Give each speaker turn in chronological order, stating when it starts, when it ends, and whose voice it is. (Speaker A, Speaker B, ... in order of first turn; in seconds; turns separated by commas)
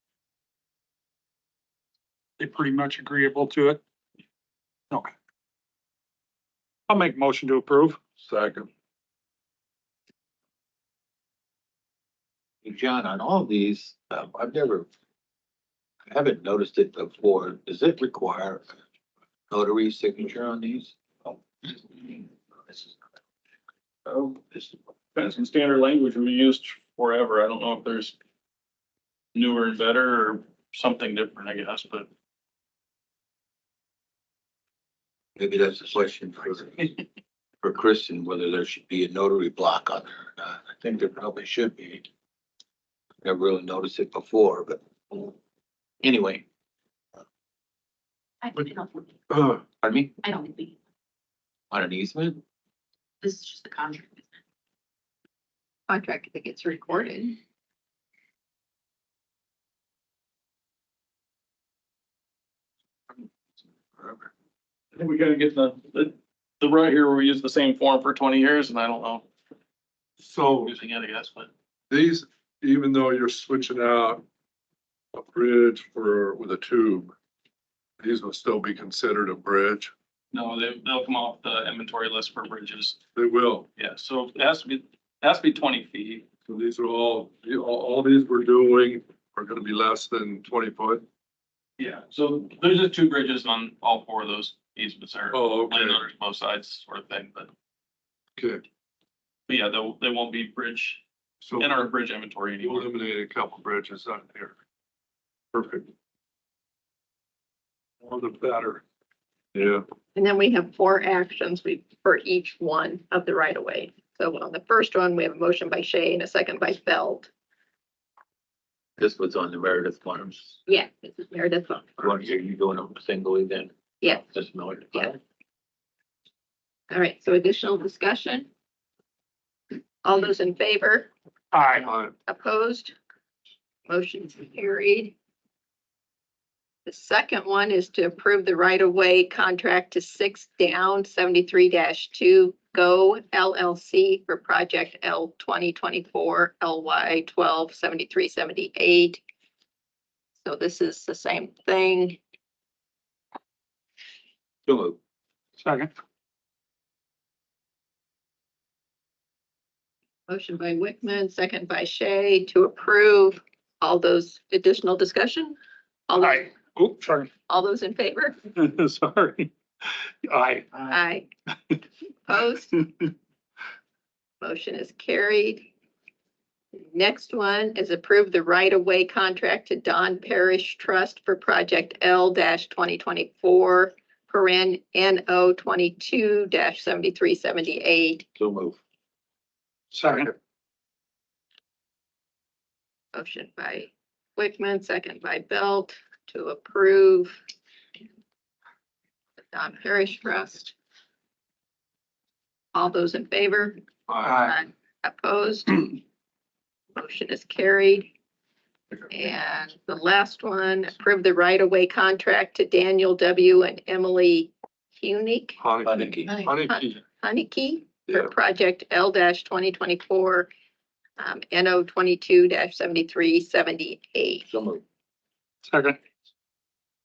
Speaker A: 2.4-3.8, Speaker A: 6.9-8.0, Speaker B: 8.2-8.7, Speaker C: 12.6-14.9, Speaker C: 16.1-18.7, Speaker C: 19.5-21.0, Speaker D: 24.1-28.2, Speaker D: 29.4-32.1, Speaker C: 35.4-36.9, Speaker C: 37.6-42.0, Speaker C: 43.2-45.3, Speaker C: 46.0-46.4, Speaker E: 48.4-49.1, Speaker B: 49.3-49.6, Speaker C: 49.8-50.1, Speaker E: 50.2-50.8, Speaker C: 51.7-52.4, Speaker E: 53.2-54.3, Speaker F: 55.9-57.4, Speaker B: 64.0-64.3, Speaker D: 64.9-69.3, Speaker B: 70.2-70.7, Speaker D: 70.6-71.5, Speaker B: 71.9-74.2, Speaker B: 75.1-77.1, Speaker B: 78.0-79.9, Speaker D: 80.3-83.0, Speaker B: 83.2-83.7, Speaker D: 83.8-86.3, Speaker B: 86.5-91.0, Speaker D: 91.8-97.5, Speaker B: 95.3-96.1, Speaker B: 98.4-98.6, Speaker D: 99.5-101.0, Speaker B: 101.4-101.9, Speaker D: 101.6-102.9, Speaker B: 102.6-104.5, Speaker B: 105.5-105.9, Speaker B: 108.0-108.8, Speaker B: 109.5-109.8, Speaker F: 110.2-117.3, Speaker C: 119.0-120.6, Speaker F: 120.7-122.0, Speaker C: 122.0-125.2, Speaker F: 124.0-124.3, Speaker F: 126.9-128.5, Speaker F: 130.0-131.1, Speaker A: 131.5-131.9, Speaker B: 131.8-132.1, Speaker F: 132.3-133.0, Speaker F: 133.9-135.1, Speaker F: 136.9-149.2, Speaker F: 150.4-152.2, Speaker C: 154.7-155.0, Speaker A: 155.6-155.9, Speaker F: 160.3-165.6, Speaker F: 166.1-166.6, Speaker A: 166.2-167.3, Speaker F: 167.5-168.4, Speaker A: 168.5-169.5, Speaker A: 170.3-170.9, Speaker F: 170.9-171.3, Speaker F: 172.3-172.7, Speaker F: 174.4-175.7, Speaker F: 176.8-188.3, Speaker C: 188.4-188.8, Speaker A: 189.9-190.3, Speaker F: 193.1-197.4, Speaker F: 199.5-200.7, Speaker F: 202.7-206.0, Speaker B: 204.1-204.5, Speaker F: 207.0-208.1, Speaker F: 209.1-215.6, Speaker B: 215.6-217.0, Speaker C: 215.8-216.3, Speaker F: 216.3-220.5, Speaker F: 221.2-224.5, Speaker C: 224.5-224.8, Speaker A: 225.7-226.0